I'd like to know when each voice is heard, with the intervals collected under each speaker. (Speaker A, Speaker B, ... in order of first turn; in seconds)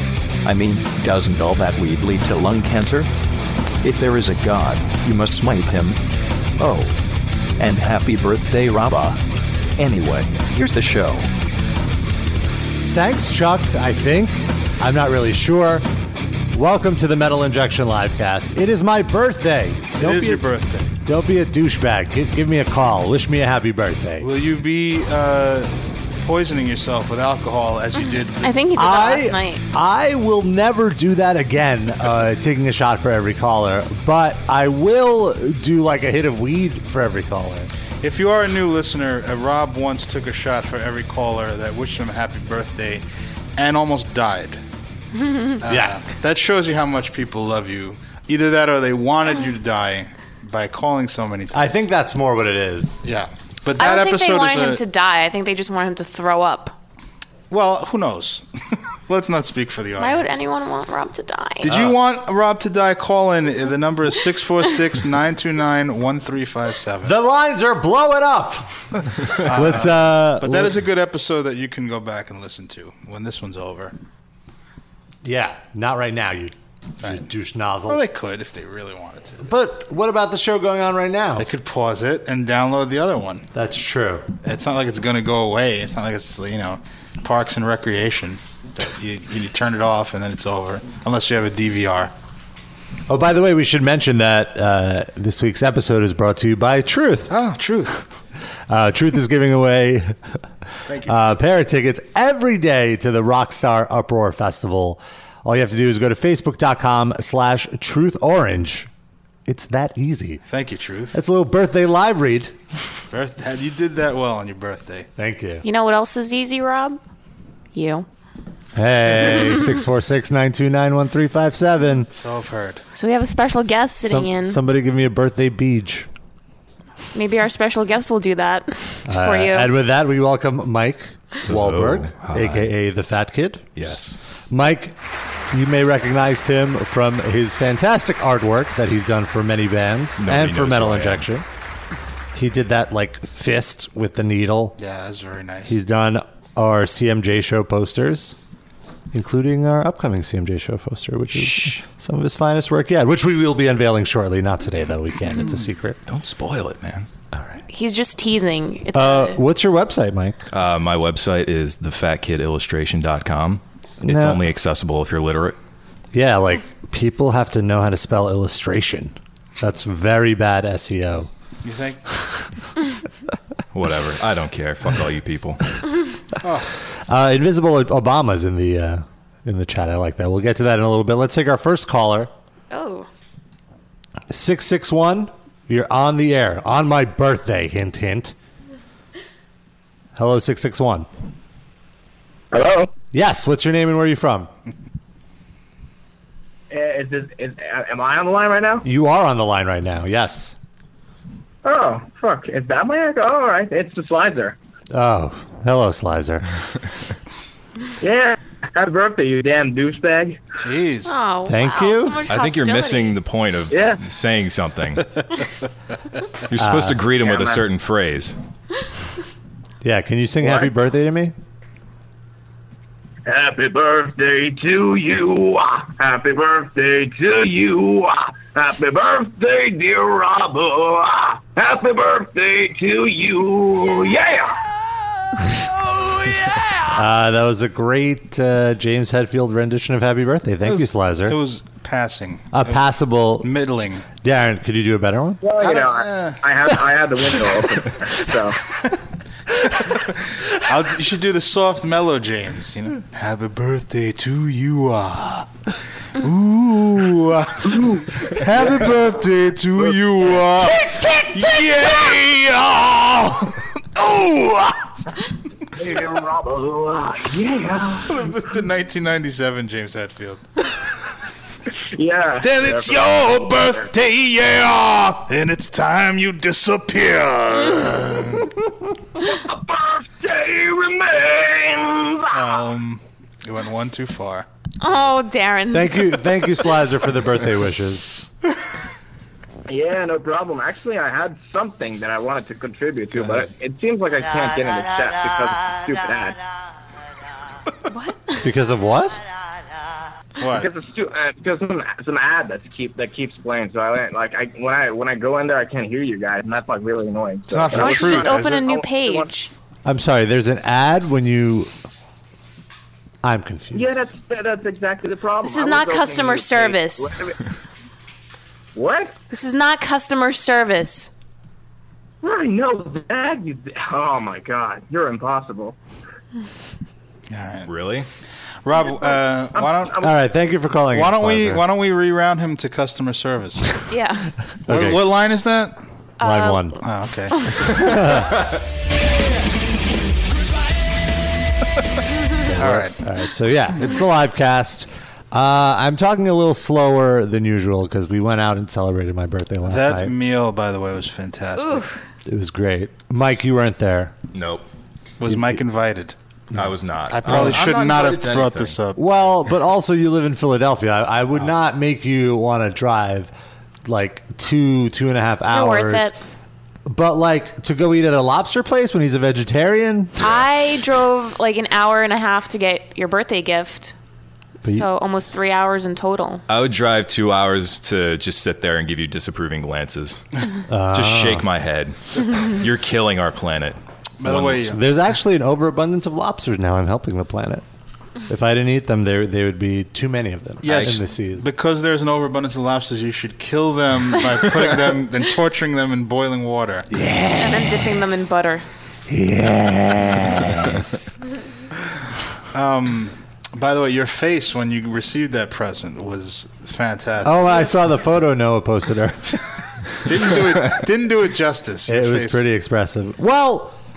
Speaker A: 0.4-3.1, 3.8-6.0, 6.6-7.0, 7.6-9.2, 9.8-11.3
Speaker B: 12.9-15.9, 16.5-20.4, 21.0-24.3, 28.8-37.7, 45.7-46.0, 51.5-53.0, 61.7-62.0, 67.0-70.8, 75.2-78.0, 79.4-81.5, 83.5-84.3, 93.1-97.3, 98.7-100.2, 101.0-108.9, 109.5-110.4, 111.1-112.5, 115.2-115.7, 118.8-122.1, 124.0-126.1, 129.1-133.9, 134.5-135.0, 135.5-141.4, 142.3-144.8, 145.7-148.4, 149.1-156.0, 158.9-160.4, 164.0-164.4, 166.1-171.3, 177.1-182.3, 184.3-188.3, 190.2-191.1, 193.1-194.5, 198.8-200.6, 204.9-206.4, 211.5-212.2, 216.6-217.0, 219.8-221.3, 236.9-241.4, 242.5-243.5, 244.2-245.4, 260.6-261.9, 285.7-288.1, 298.4-299.2, 309.9-311.7, 313.2-314.0, 330.0-331.6, 334.7-335.1, 336.2-336.8, 337.7-338.5, 342.4-350.1, 352.2-354.1, 355.2-355.6, 357.2-357.6, 358.9-363.3, 363.9-366.1, 366.9-370.4, 380.7-381.5, 384.5-387.6, 388.3-391.5, 396.9-398.2, 399.1-401.0, 407.2-409.4, 411.9-413.8
Speaker C: 20.0-20.9, 24.2-28.6, 38.0-43.0, 43.6-44.6, 45.6-51.7, 53.0-54.8, 57.5-60.4, 61.6-67.1, 69.3-73.9, 77.9-79.4, 81.4-83.5, 84.4-92.1, 97.3-98.0, 100.9-101.3, 110.5-111.2, 113.1-115.1, 122.1-122.8, 144.8-145.8, 171.6-172.0, 176.4-176.7, 210.6-211.2, 240.7-242.8, 243.4-244.1, 245.6-246.4, 249.8-255.5, 256.1-264.9, 268.1-270.4, 272.4-278.6, 282.3-284.5, 300.4-300.7, 307.5-308.7, 327.3-327.7, 328.6-330.0, 330.9-333.8, 334.7-335.8, 336.8-337.8, 342.6-343.0, 349.6-351.9, 355.2-356.2, 357.1-359.0, 384.2-384.8, 390.6-396.9, 402.5-407.6, 410.1-412.4
Speaker D: 28.4-29.6, 45.2-45.6, 53.8-56.8, 60.0-61.7, 115.6-117.0, 117.7-118.1, 122.9-124.6, 127.2-129.7, 157.7-159.4, 182.7-183.1, 211.1-213.2, 284.8-286.3, 297.9-298.4, 307.7-309.5, 315.4-317.2, 319.3-321.1, 333.9-334.3, 336.2-336.8, 337.4-337.8, 351.6-352.0, 365.5-366.2, 370.2-373.9, 374.6-376.4, 397.3-398.6
Speaker E: 131.5-132.7, 133.8-134.2, 140.2-141.3, 151.4-151.8, 156.1-157.1, 160.5-165.6, 173.7-175.6, 212.3-215.1, 216.5-218.4, 327.6-328.1, 354.3-354.7, 356.5-358.8, 376.5-380.2, 380.9-384.6, 390.7-390.9
Speaker F: 192.5-192.9, 196.7-198.8, 201.7-204.6, 208.0-210.4, 213.7-214.0, 217.2-217.6, 220.4-220.7, 223.3-234.6, 236.0-236.6, 245.4-248.6, 257.7-258.1, 265.8-268.2, 271.8-273.9, 279.2-282.6, 289.7-296.4, 300.5-309.3, 313.7-317.4, 318.8-319.1, 322.2-325.8, 329.0-330.1